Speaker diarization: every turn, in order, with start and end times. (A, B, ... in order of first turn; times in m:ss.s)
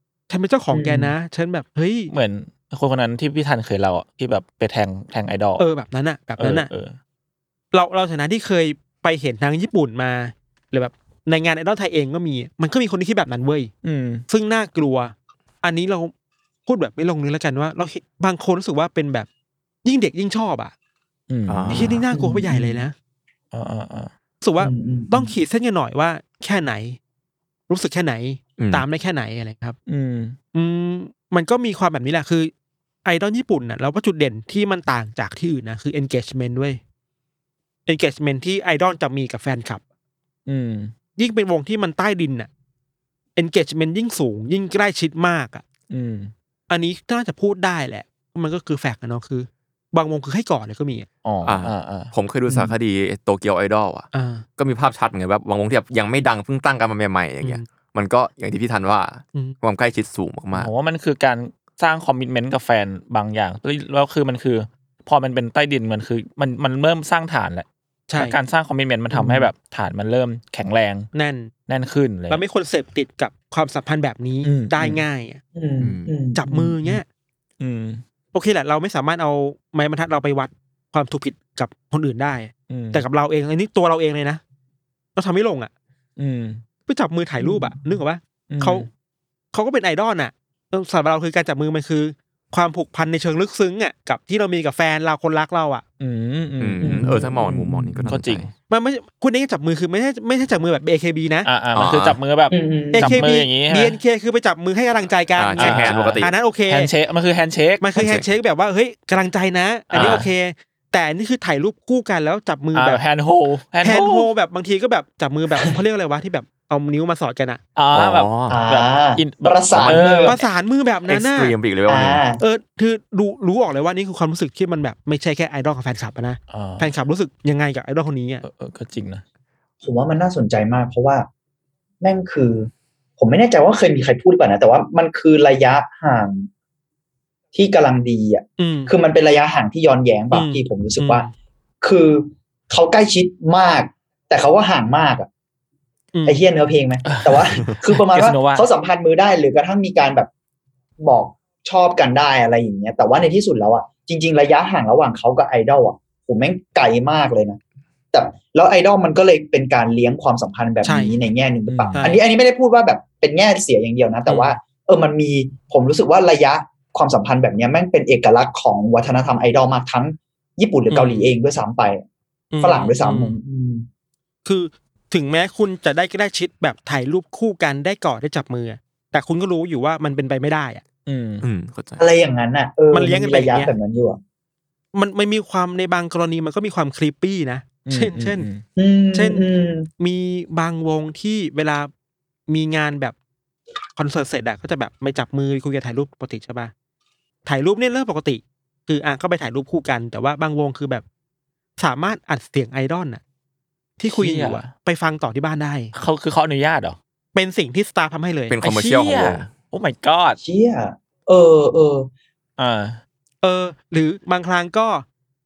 0:00.3-0:02.1 A
0:00.7-0:01.1 B
0:02.1-0:05.6 C
0:05.6-0:06.7 A
0:06.4-0:06.9 C
0:07.7-0:13.7 A
0:13.8-0:14.2 C
0:14.3-0:16.1 A
0:16.6-0:19.3 A
0:19.8-0:20.7 A
0:21.3-0:22.0 C
0:21.5-0:22.0 D
0:21.7-0:22.9 A
0:22.1-0:22.8 B
0:23.5-0:24.1 C
0:24.4-0:27.0 A
0:24.6-0:25.3 B
0:27.7-0:29.8 A
0:28.6-0:28.8 D
0:29.9-0:30.4 C
0:30.5-0:32.5 A
0:33.0-0:36.8 A
0:37.8-0:39.8 A
0:40.5-0:40.9 C
0:41.2-0:42.5 A
0:43.4-0:45.6 A
0:45.9-0:46.3 C
0:46.7-0:51.1 A
0:51.2-0:52.1 C
0:51.4-1:00.7 D
0:54.1-0:54.4 A
1:00.5-1:07.6 C
1:08.1-1:08.4 A
1:08.2-1:11.1 C
1:09.1-1:09.5 B
1:11.1-1:11.5 A
1:11.7-1:12.4 C
1:12.3-1:15.4 A
1:14.4-1:15.0 C
1:15.5-1:17.0 B
1:15.8-1:16.1 D
1:16.4-1:17.0 A
1:17.6-1:18.0 C
1:18.3-1:24.4 A
1:22.7-1:23.0 C
1:25.2-1:25.7 A
1:26.2-1:26.6 C
1:26.9-1:28.9 A
1:27.4-1:27.7 B
1:28.5-1:28.9 C
1:29.5-1:35.8 A
1:36.0-1:38.5 C
1:36.6-1:38.5 D
1:36.8-1:37.8 B
1:38.7-1:41.5 A
1:41.4-1:44.0 C
1:41.7-1:42.2 D
1:42.5-1:43.2 B
1:42.9-1:46.9 A
1:45.4-1:46.3 D
1:45.6-1:47.9 C
1:47.8-1:53.0 A
1:48.0-1:48.2 D
1:49.9-1:50.3 C
1:52.7-1:54.3 C
1:53.8-1:57.6 A
1:57.8-2:00.4 C
1:57.9-1:58.6 D
1:58.5-2:00.3 B
1:59.7-2:00.0 D
2:00.2-2:01.5 A
2:01.1-2:02.2 D
2:01.9-2:02.4 B
2:02.4-2:08.4 A
2:06.5-2:06.9 C
2:08.4-2:09.2 C
2:09.8-2:11.3 B
2:12.0-2:16.5 B
2:17.5-2:21.2 B
2:18.6-2:18.9 A
2:20.3-2:21.3 A
2:21.8-2:25.3 B
2:26.1-2:26.4 A
2:26.2-2:30.3 B
2:27.0-2:28.7 C
2:31.0-2:37.6 B
2:38.1-2:52.0 B
2:40.8-2:41.1 A
2:41.7-2:42.1 C
2:41.9-2:42.2 A
2:44.3-2:44.5 A
2:50.9-2:51.3 A
2:52.5-2:53.4 A
2:52.6-2:53.9 B
2:54.4-3:00.8 A
3:01.0-3:01.4 C
3:01.4-3:02.0 D
3:02.0-3:04.2 B
3:02.9-3:03.7 A
3:04.9-3:08.5 A
3:07.8-3:08.6 C
3:08.8-3:09.9 B
3:09.1-3:09.4 A
3:10.0-3:11.9 A
3:12.5-3:13.1 A
3:14.0-3:16.7 A
3:17.4-3:21.0 A
3:21.8-3:23.2 A
3:24.0-3:25.9 A
3:24.1-3:24.7 C
3:25.9-3:27.0 C
3:27.3-3:28.6 A
3:28.5-3:29.5 D
3:28.6-3:30.4 C
3:30.4-3:32.1 B
3:32.6-3:33.0 C
3:33.4-3:35.0 A